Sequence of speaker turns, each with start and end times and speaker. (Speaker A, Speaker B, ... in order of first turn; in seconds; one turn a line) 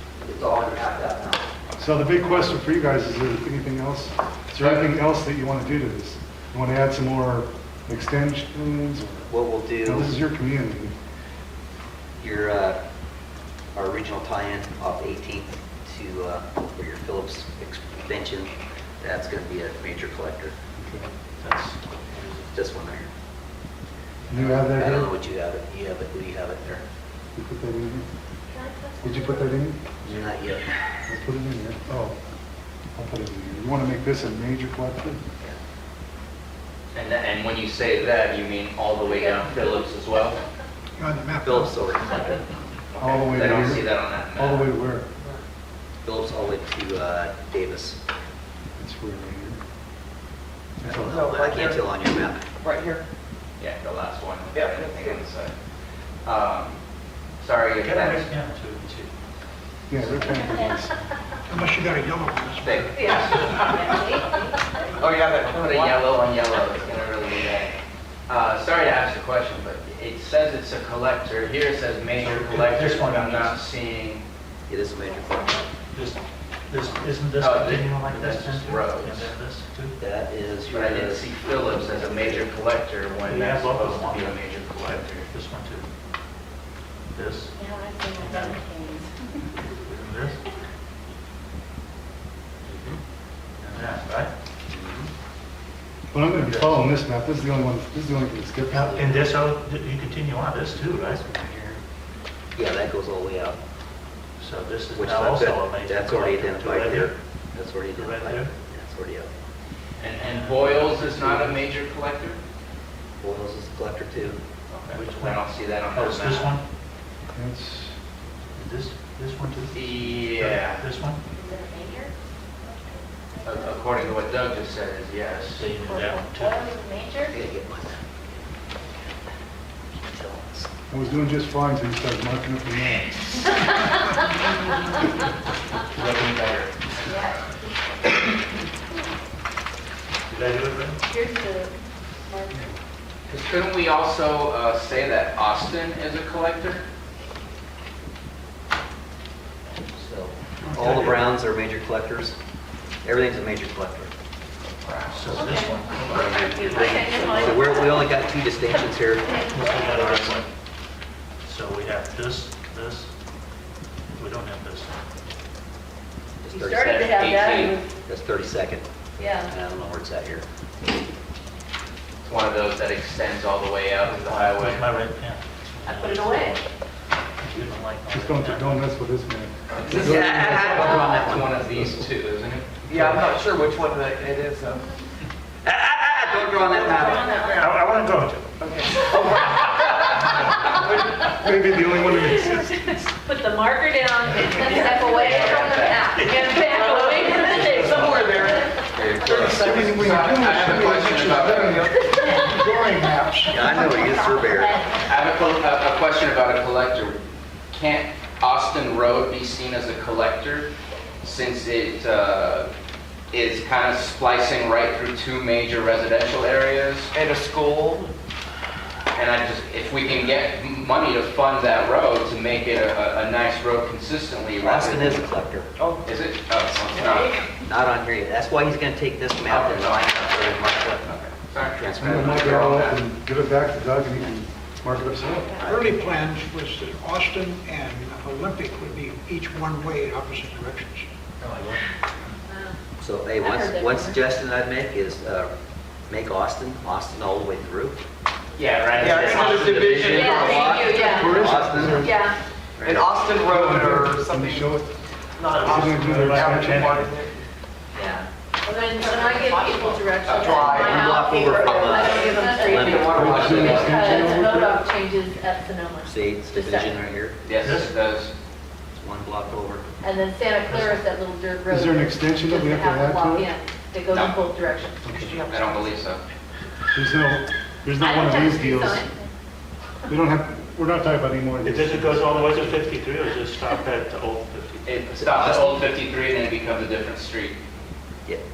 Speaker A: 0.2-1.5
Speaker B: 1.8-9.3
Speaker C: 4.6-4.8
Speaker A: 9.3-10.2
Speaker B: 9.8-10.9
Speaker A: 12.2-12.8
Speaker A: 13.7-20.5
Speaker B: 20.8-21.1
Speaker D: 21.4-22.5
Speaker A: 22.5-23.1
Speaker B: 24.3-25.1
Speaker A: 24.3-26.8
Speaker B: 27.4-28.1
Speaker E: 28.5-29.6
Speaker B: 29.0-30.2
Speaker A: 30.0-30.8
Speaker B: 31.1-31.9
Speaker B: 33.0-35.2
Speaker C: 36.9-40.4
Speaker E: 39.0-40.6
Speaker F: 41.0-41.7
Speaker A: 41.4-42.4
Speaker C: 42.9-44.7
Speaker B: 43.0-45.1
Speaker A: 46.0-48.0
Speaker B: 48.8-49.6
Speaker B: 50.8-51.2
Speaker A: 50.8-52.5
Speaker G: 51.0-51.9
Speaker G: 52.6-53.0
Speaker C: 53.6-55.5
Speaker G: 54.5-55.2
Speaker C: 56.2-56.8
Speaker C: 57.4-58.3
Speaker D: 57.8-59.1
Speaker B: 59.9-61.0
Speaker F: 61.5-63.7
Speaker C: 62.6-64.1
Speaker E: 62.9-64.9
Speaker G: 65.0-66.1
Speaker C: 65.4-67.7
Speaker C: 68.3-74.2
Speaker D: 72.1-73.6
Speaker A: 74.7-75.7
Speaker D: 75.9-80.0
Speaker C: 77.4-79.3
Speaker A: 80.0-82.4
Speaker C: 80.7-85.3
Speaker D: 83.2-85.8
Speaker D: 87.1-88.7
Speaker E: 87.6-89.1
Speaker D: 89.7-90.4
Speaker A: 92.7-93.0
Speaker D: 93.6-94.3
Speaker A: 94.7-95.1
Speaker B: 96.1-98.9
Speaker D: 96.2-96.9
Speaker A: 98.7-99.4
Speaker D: 98.7-101.2
Speaker A: 100.7-101.8
Speaker A: 102.5-103.6
Speaker D: 104.4-107.2
Speaker A: 104.9-109.3
Speaker D: 107.9-108.5
Speaker C: 110.0-112.4
Speaker D: 110.0-111.6
Speaker A: 113.2-114.4
Speaker D: 114.9-116.6
Speaker C: 115.1-116.5
Speaker B: 117.3-117.9
Speaker D: 118.5-121.2
Speaker C: 119.7-120.9
Speaker E: 121.3-124.1
Speaker C: 123.4-125.7
Speaker D: 125.5-126.7
Speaker E: 125.8-127.3
Speaker A: 127.3-128.3
Speaker A: 129.9-131.1
Speaker B: 130.9-133.5
Speaker C: 135.8-137.2
Speaker E: 137.1-137.6
Speaker D: 140.3-141.0
Speaker E: 141.1-142.7
Speaker C: 143.3-146.8
Speaker A: 149.7-152.3
Speaker D: 150.7-151.4
Speaker A: 153.0-154.1
Speaker C: 154.8-155.6
Speaker D: 155.1-157.6
Speaker E: 155.4-158.2
Speaker A: 156.0-160.3
Speaker E: 159.2-159.9
Speaker D: 159.5-160.5
Speaker D: 161.4-163.1
Speaker D: 164.1-165.0
Speaker A: 166.4-167.1
Speaker E: 166.5-167.9
Speaker C: 166.8-167.8
Speaker A: 168.0-168.9
Speaker E: 169.2-169.5
Speaker A: 169.4-170.4
Speaker C: 172.2-174.9
Speaker D: 174.0-176.6
Speaker E: 175.8-176.6
Speaker D: 177.4-178.8
Speaker B: 178.1-181.9
Speaker C: 179.7-182.7
Speaker A: 179.9-181.5
Speaker G: 182.9-184.8
Speaker A: 185.6-187.3
Speaker G: 186.6-187.7
Speaker E: 186.7-187.7
Speaker D: 187.6-189.8
Speaker G: 188.6-191.3
Speaker B: 191.2-193.1
Speaker E: 192.2-198.8
Speaker C: 194.5-196.6
Speaker D: 196.0-196.5
Speaker G: 196.4-200.2
Speaker A: 198.9-199.9
Speaker B: 199.3-203.9
Speaker C: 199.9-201.8
Speaker F: 200.2-201.1
Speaker G: 201.1-202.8
Speaker E: 201.9-205.1
Speaker F: 203.1-204.0
Speaker A: 203.4-204.8
Speaker C: 205.1-210.7
Speaker C: 211.2-212.7
Speaker C: 213.3-217.1
Speaker G: 217.1-218.1
Speaker C: 219.1-225.2
Speaker A: 224.6-225.7
Speaker G: 225.8-226.0
Speaker C: 226.0-227.5
Speaker E: 226.9-227.5
Speaker A: 227.5-231.1
Speaker C: 229.4-233.0
Speaker A: 231.7-232.7
Speaker B: 232.0-235.5
Speaker A: 235.6-236.0
Speaker F: 235.7-241.1
Speaker D: 241.4-241.8
Speaker E: 242.5-242.8
Speaker A: 243.0-245.5
Speaker E: 243.4-244.2
Speaker A: 246.1-248.0
Speaker C: 248.6-250.7
Speaker G: 249.0-251.1
Speaker A: 249.2-252.1
Speaker E: 250.1-252.4
Speaker B: 251.0-252.3
Speaker A: 252.8-253.1
Speaker G: 252.8-254.8
Speaker B: 253.5-254.9
Speaker G: 255.3-257.4
Speaker D: 255.5-257.1
Speaker B: 255.6-257.1
Speaker E: 258.6-267.0
Speaker G: 258.9-263.9
Speaker C: 260.2-261.0
Speaker A: 260.7-263.8
Speaker C: 261.8-264.3
Speaker B: 263.1-264.8
Speaker A: 266.0-267.4
Speaker C: 267.4-268.3
Speaker D: 267.6-267.9
Speaker A: 268.9-269.8
Speaker E: 270.0-275.2
Speaker D: 270.6-271.0
Speaker B: 271.7-273.5
Speaker C: 274.1-274.4
Speaker B: 275.0-275.4
Speaker G: 275.1-276.1
Speaker C: 275.5-276.2
Speaker B: 276.9-279.1
Speaker E: 278.0-279.3
Speaker B: 280.1-282.8
Speaker D: 281.6-284.9
Speaker C: 284.9-287.6
Speaker A: 285.2-285.8